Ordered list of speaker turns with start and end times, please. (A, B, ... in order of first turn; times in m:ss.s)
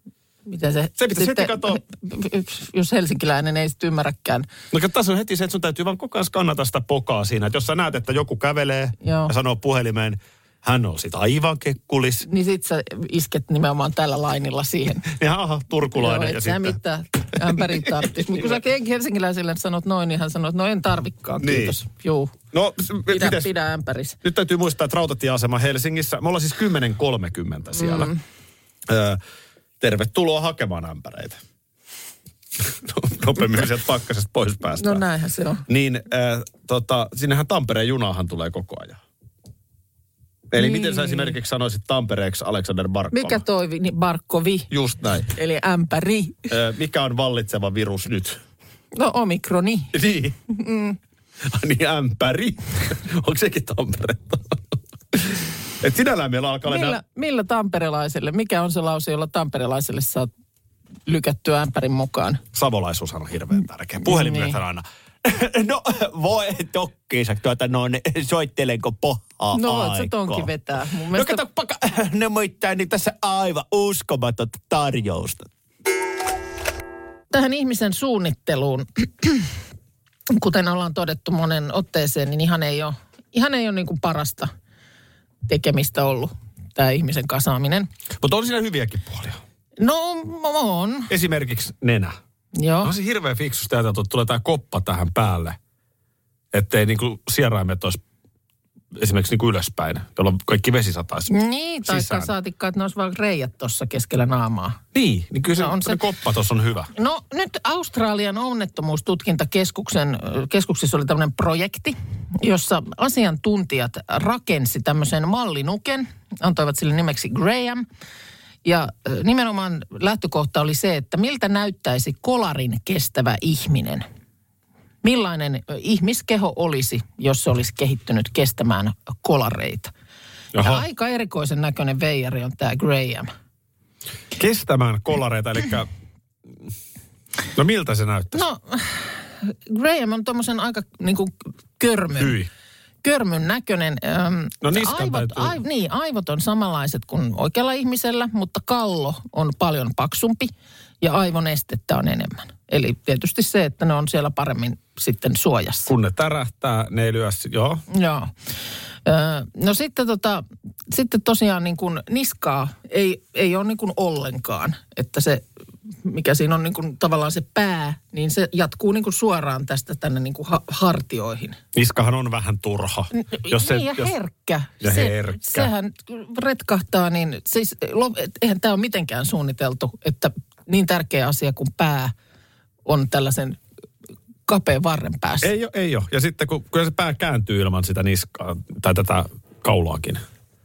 0:00.5-0:04.5 A
0:01.0-0:01.8 B
0:04.7-0:12.3 B
0:09.0-0:09.3 A
0:12.3-0:15.1 A
0:15.1-0:16.8 B
0:16.0-0:22.3 A
0:17.4-0:18.6 B
0:21.4-0:21.8 B
0:22.5-0:23.5 B
0:23.1-0:24.2 A
0:24.2-0:28.1 B
0:27.8-0:28.2 A
0:28.9-0:29.2 B
0:29.8-0:31.4 B
0:32.6-0:35.0 B
0:34.8-0:35.6 A
0:35.7-0:39.0 B
0:40.5-0:43.4 B
0:40.6-0:41.4 A
0:43.1-0:44.7 A
0:44.7-0:45.3 B
0:45.3-0:46.5 A
0:46.5-0:48.4 B
0:48.9-0:49.9 A
0:49.9-0:50.4 B
0:50.5-0:51.0 A
0:51.4-0:54.6 B
0:55.1-0:57.0 B
0:56.7-1:00.3 A
1:01.1-1:02.4 A
1:02.5-1:10.5 B
1:04.0-1:04.6 A
1:09.5-1:11.4 A
1:11.1-1:15.5 B
1:17.3-1:19.5 A
1:20.3-1:24.5 A
1:25.5-1:27.9 A
1:28.2-1:29.4 B
1:29.8-1:31.1 A
1:31.1-1:32.1 B
1:32.6-1:32.9 A
1:32.8-1:35.6 B
1:36.5-1:38.0 B
1:39.0-1:41.3 B
1:41.3-1:44.8 A
1:41.8-1:42.3 B
1:44.9-1:46.9 B
1:45.6-1:46.0 A
1:47.0-1:57.9 A
1:58.6-2:04.0 A
2:05.0-2:09.9 A
2:10.5-2:10.8 B
2:10.6-2:13.3 A
2:14.3-2:15.9 B
2:17.6-2:18.4 B
2:18.3-2:22.4 A
2:22.2-2:22.5 B
2:23.0-2:35.9 A
2:24.6-2:25.6 B
2:35.9-2:37.8 B
2:37.9-2:38.3 A
2:39.1-2:45.5 A
2:46.0-2:51.6 A
2:51.7-2:54.1 B
2:53.1-3:02.1 A
2:54.8-2:55.7 B
3:02.9-3:03.6 A
3:04.5-3:05.5 A
3:05.4-3:10.2 B